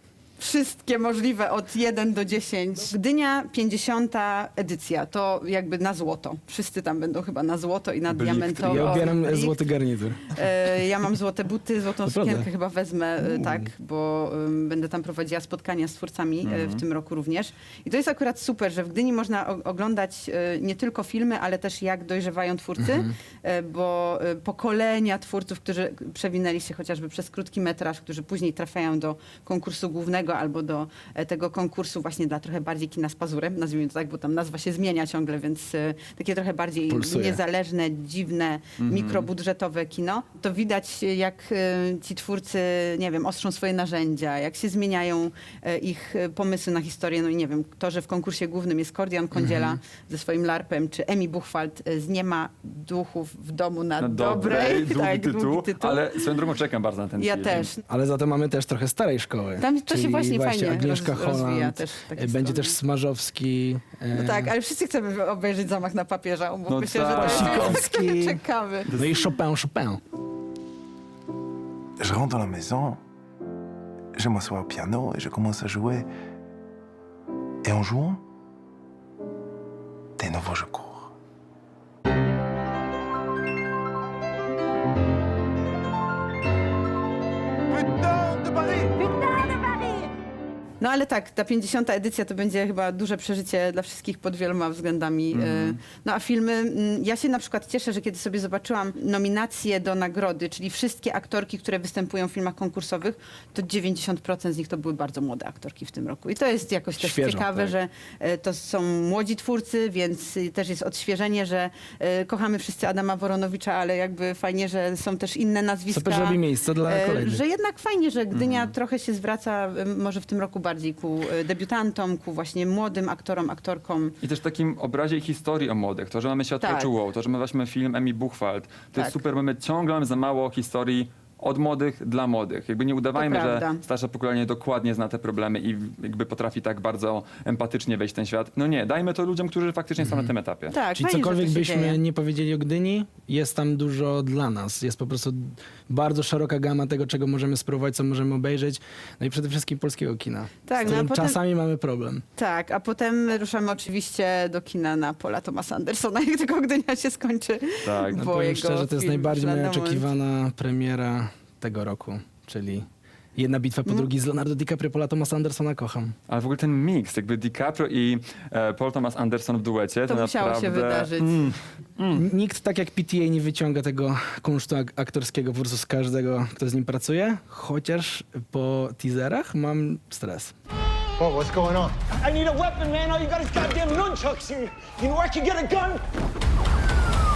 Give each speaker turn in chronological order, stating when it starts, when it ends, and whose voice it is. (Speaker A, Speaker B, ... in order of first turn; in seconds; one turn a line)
Speaker A: 0.4-9.6
Speaker B: 8.1-9.1
Speaker C: 8.6-10.3
Speaker A: 10.3-56.2
Speaker C: 12.1-12.5
Speaker C: 13.2-13.7
Speaker B: 16.4-16.8
Speaker C: 22.8-23.1
Speaker C: 36.9-37.4
Speaker B: 38.8-39.3
Speaker B: 54.0-57.7
Speaker A: 57.2-57.8
Speaker C: 57.9-64.5
Speaker A: 59.6-62.8
Speaker A: 64.1-68.9
Speaker B: 66.7-67.8
Speaker C: 67.1-68.4
Speaker B: 68.9-69.2
Speaker C: 69.0-70.0
Speaker D: 72.0-73.0
Speaker D: 74.2-76.1
Speaker D: 77.6-78.2
Speaker D: 80.2-81.1
Speaker A: 90.8-124.2
Speaker B: 95.3-95.8
Speaker C: 107.0-107.8
Speaker C: 115.9-117.4
Speaker B: 118.3-118.7
Speaker B: 124.2-140.8
Speaker A: 126.6-126.9
Speaker A: 133.2-133.8
Speaker A: 140.7-142.0
Speaker C: 140.9-152.2
Speaker A: 150.7-151.4
Speaker A: 152.4-160.1
Speaker B: 157.8-158.2
Speaker C: 158.2-166.2
Speaker B: 166.3-172.2
Speaker A: 170.1-171.4
Speaker C: 172.2-180.5
Speaker E: 182.3-185.0